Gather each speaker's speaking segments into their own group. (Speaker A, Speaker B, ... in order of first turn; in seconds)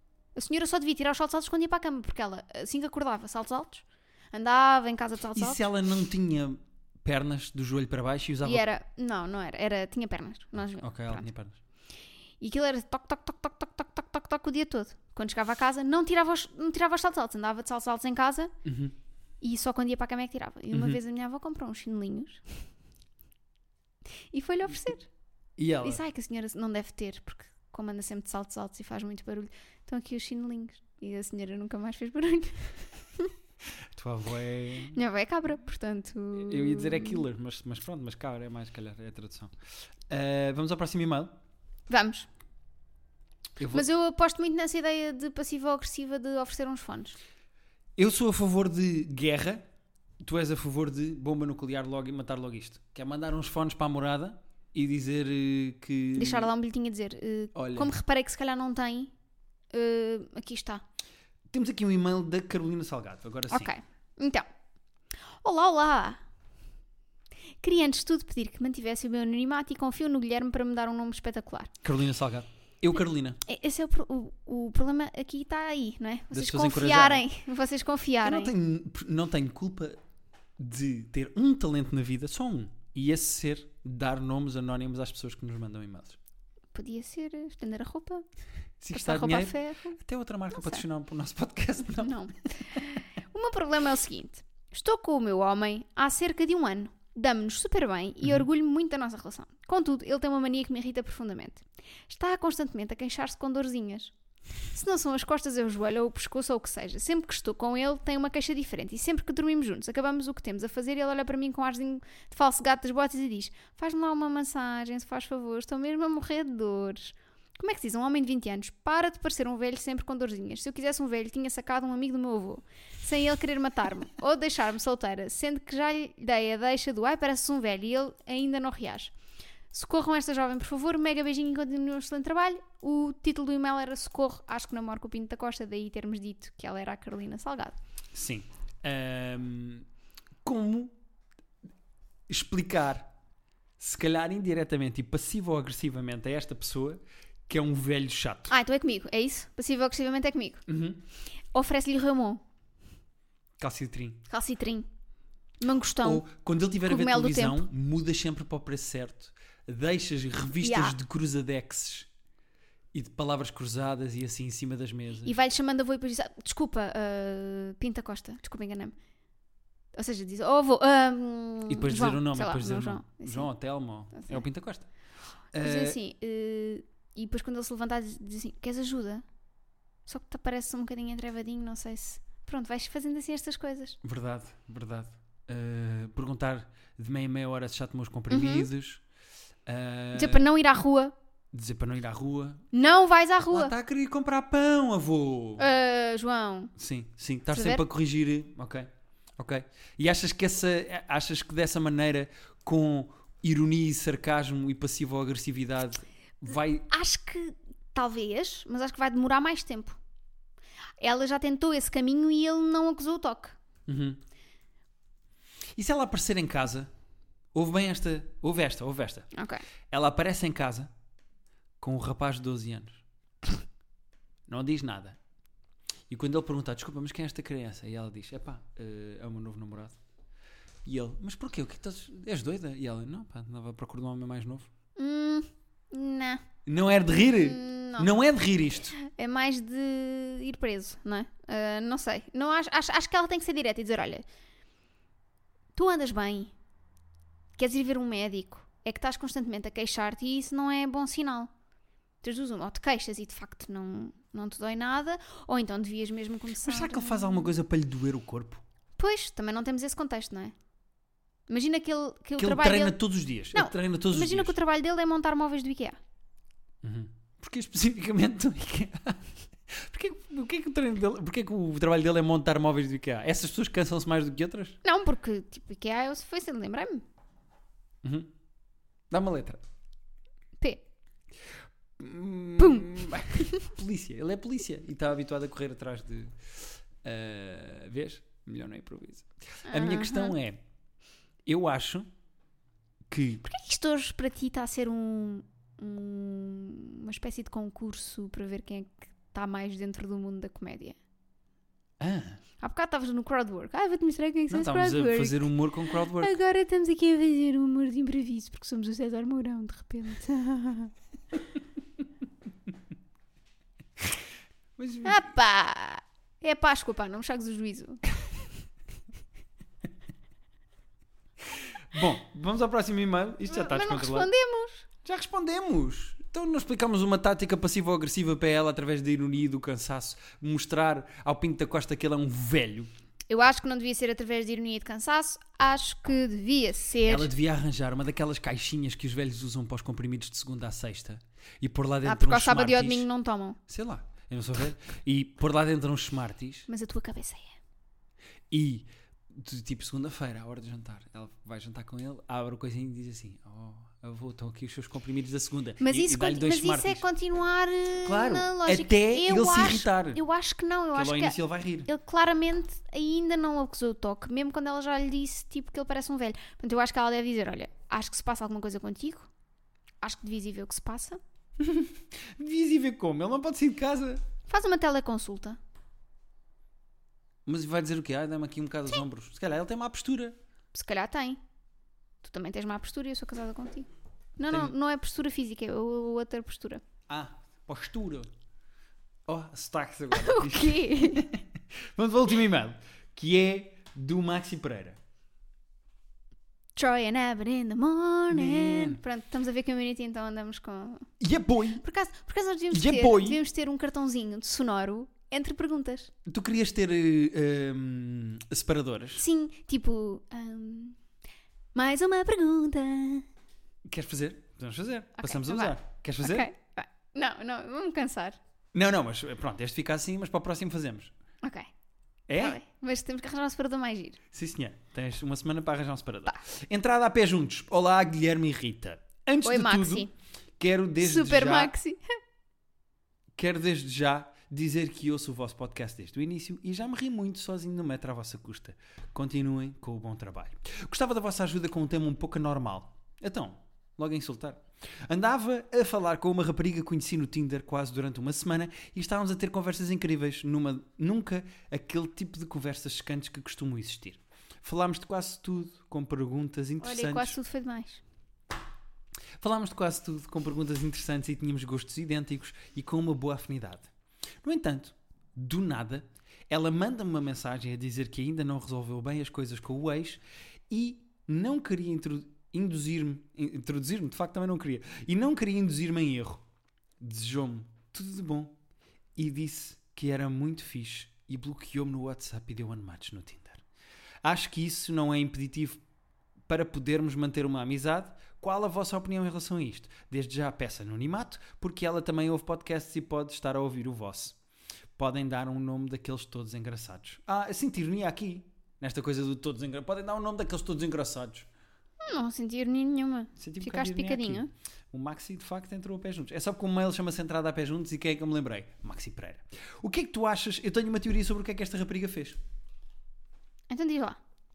Speaker A: 0.3-5.6, 8.4-11.3, 12.4-18.5, 19.4-22.4, 24.3-25.1, 25.8-33.3, 34.9-37.2, 41.9-42.3, 43.7-47.2, 56.1-59.1, 59.7-60.8, 63.5-64.5, 65.4-66.2, 67.6-71.7, 73.4-78.5, 86.7-88.2, 88.9-90.0, 90.5-90.8, 92.0-104.1, 104.7-129.1, 129.7-137.8, 148.5-150.6, 151.5-152.4, 154.3-154.9, 155.6-156.2, 156.8-157.7, 160.6-160.9, 165.2-168.9, 169.9-173.5, 174.1-174.4, 175.6-179.2, 180.1-184.0, 188.3-188.7, 190.1-191.1, 192.7-193.7, 195.6-196.7, 197.5-197.8, 206.9-210.0, 211.0-213.6, 219.3-219.6, 234.9-236.4, 237.2-238.1, 238.9-244.2, 245.7-246.5, 247.6-251.5, 252.2-257.5, 259.0-260.5, 261.5-263.0, 263.5-266.0, 274.8-277.0, 282.6-283.7, 289.6-290.4, 293.4-301.0, 302.6-305.5, 306.2-310.9, 315.0-318.0, 323.5-324.9, 333.3-337.3, 342.0-343.6, 346.7-347.6, 355.8-369.3, 370.0-371.2, 374.5-375.6, 380.7-381.4, 382.2-386.8, 390.1-391.2, 396.8-401.1, 401.8-406.1, 409.1-411.0, 411.7-413.3, 415.2-418.4, 421.4-421.7, 422.3-424.2, 429.4-430.1, 431.0-432.0, 456.8-458.0, 502.0-504.5, 513.7-514.2
Speaker B: 5.3-8.7, 10.6-11.6, 18.6-18.9, 20.7-21.0, 25.6-26.0, 33.9-35.0, 36.3-39.5, 40.1-41.3, 43.6-43.9, 48.0-49.6, 50.2-56.5, 57.5-57.9, 61.5-63.7, 71.8-73.4, 76.3-77.3, 78.2-80.0, 80.6-86.2, 88.8-92.2, 138.1-139.8, 140.4-140.9, 142.3-143.1, 143.8-148.5, 150.7-151.0, 153.6-154.2, 156.0-162.1, 162.9-165.3, 171.7-174.9, 175.5-176.0, 184.0-189.0, 189.7-190.4, 191.5-192.6, 193.5-195.6, 196.8-206.9, 213.9-214.2, 215.8-216.9, 217.5-219.3, 219.9-220.9, 221.8-223.0, 224.5-225.2, 226.1-230.0, 230.8-234.7, 236.7-238.9, 256.6-258.6, 262.4-264.5, 266.8-274.8, 278.0-278.3, 279.1-279.6, 282.0-290.6, 291.4-292.1, 293.1-293.4, 302.0-302.4, 304.5-306.4, 314.8-315.3, 321.5-324.3, 325.0-332.9, 337.1-343.1, 343.7-346.7, 348.5-357.0, 358.0-360.2, 360.9-361.9, 371.6-374.2, 377.4-380.4, 384.5-384.7, 387.1-388.3, 389.2-395.0, 398.3-399.0, 401.2-401.8, 402.7-403.4, 406.2-409.2, 413.8-416.5, 418.7-421.1, 422.3-422.6, 424.3-431.7, 433.4-457.4, 459.4-463.9, 464.4-476.4, 477.0-478.5, 479.1-483.6, 484.2-485.8, 486.5-494.4, 494.9-501.5, 503.4-512.4